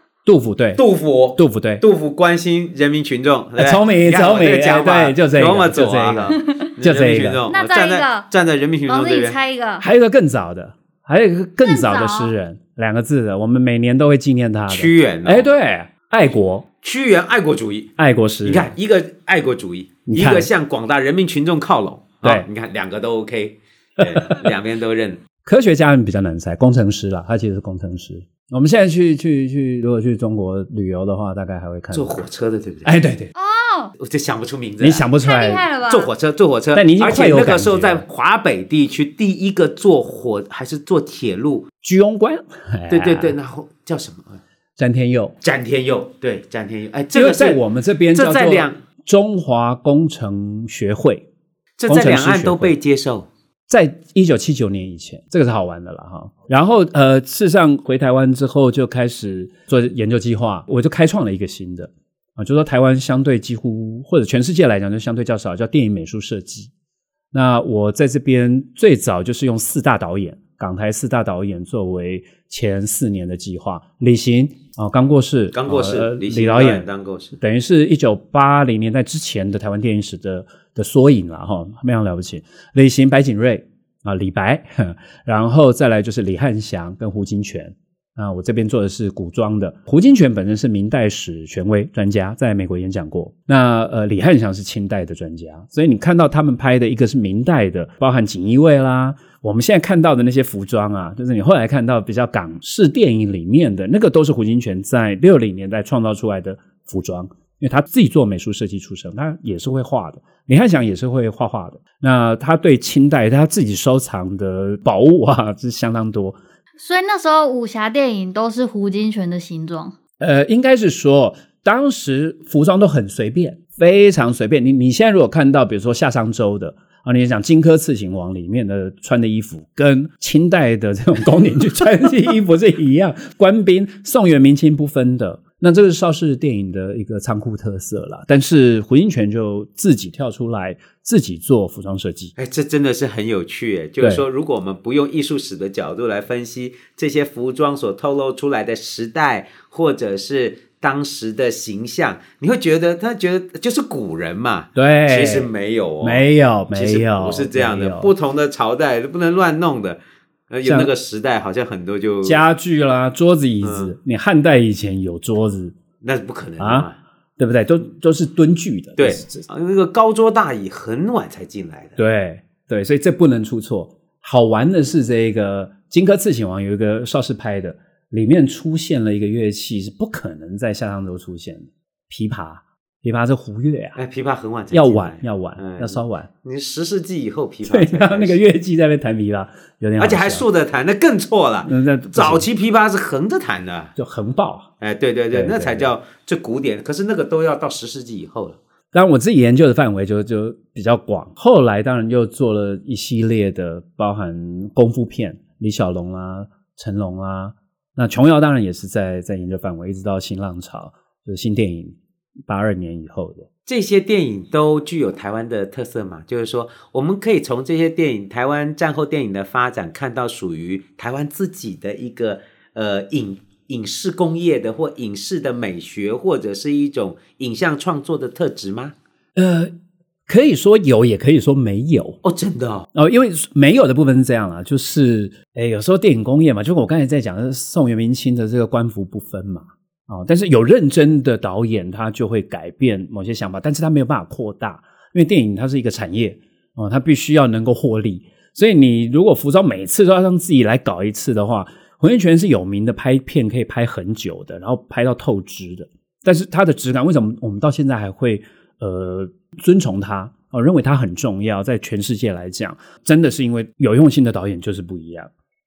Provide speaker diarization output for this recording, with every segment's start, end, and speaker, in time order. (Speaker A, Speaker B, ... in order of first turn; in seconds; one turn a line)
Speaker A: 0.2-0.8
Speaker B: 0.8-9.4
Speaker A: 1.4-1.8
Speaker A: 3.6-7.4
Speaker C: 7.5-8.3
Speaker C: 8.9-9.9
Speaker A: 9.8-16.7
Speaker C: 11.6-12.3
Speaker B: 14.7-15.5
Speaker B: 16.8-17.9
Speaker A: 18.0-18.7
Speaker B: 18.4-25.2
Speaker A: 20.1-20.5
Speaker A: 24.0-24.5
Speaker A: 25.4-32.2
Speaker B: 31.9-33.0
Speaker A: 32.8-33.3
Speaker C: 33.3-33.9
Speaker B: 34.0-35.1
Speaker A: 34.8-35.7
Speaker C: 35.2-36.1
Speaker B: 35.9-41.6
Speaker A: 36.7-38.0
Speaker A: 41.8-43.3
Speaker B: 42.9-44.4
Speaker A: 44.8-45.3
Speaker B: 45.4-48.8
Speaker A: 47.1-51.3
Speaker B: 51.8-53.3
Speaker A: 51.9-52.8
Speaker A: 53.7-66.7
Speaker A: 67.3-76.9
Speaker B: 75.5-77.4
Speaker A: 77.4-116.4
Speaker C: 116.8-119.9
Speaker A: 120.2-142.3
Speaker B: 142.4-162.4
Speaker A: 154.8-155.5
Speaker A: 156.0-158.1
Speaker A: 160.6-160.9
Speaker A: 162.2-165.8
Speaker B: 163.6-163.9
Speaker B: 166.0-167.0
Speaker A: 166.6-169.4
Speaker B: 169.0-172.0
Speaker A: 172.0-184.0
Speaker B: 183.9-188.4
Speaker A: 184.7-186.3
Speaker A: 187.7-190.4
Speaker B: 190.0-193.9
Speaker A: 191.7-192.5
Speaker A: 193.9-194.7
Speaker B: 194.8-198.6
Speaker A: 195.3-195.9
Speaker A: 198.9-213.5
Speaker B: 213.7-228.9
Speaker A: 229.4-229.7
Speaker A: 230.3-232.2
Speaker B: 232.2-232.9
Speaker A: 232.9-265.3